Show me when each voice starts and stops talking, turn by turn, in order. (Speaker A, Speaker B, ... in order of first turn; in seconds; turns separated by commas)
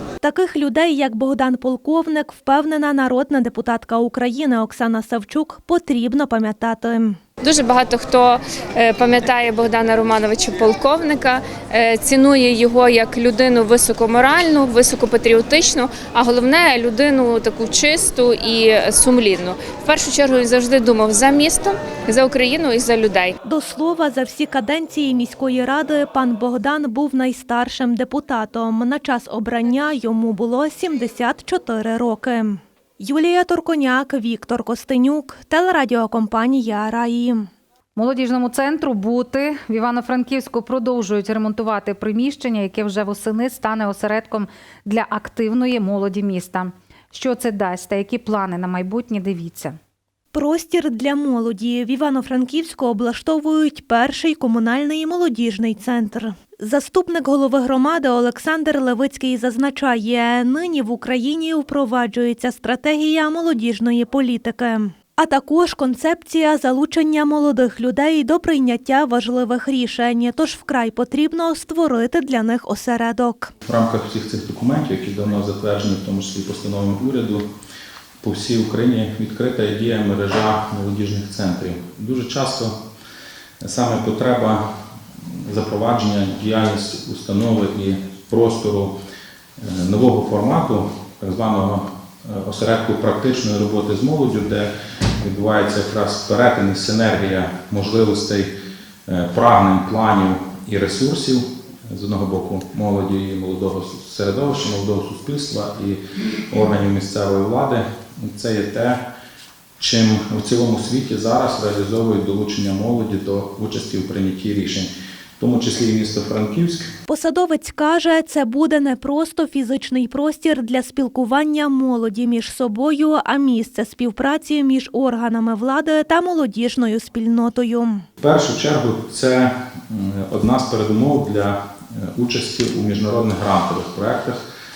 Speaker A: 0.2-7.2, Speaker B: 7.4-23.3, Speaker A: 23.4-37.5, Speaker C: 38.0-49.8, Speaker A: 50.3-73.5, Speaker D: 73.6-77.4, Speaker D: 78.2-82.7, Speaker D: 83.6-84.6, Speaker D: 85.5-88.9, Speaker D: 89.6-98.5, Speaker D: 99.1-106.0, Speaker D: 106.5-109.0, Speaker D: 109.8-116.8, Speaker A: 117.1-128.0, Speaker D: 128.2-134.4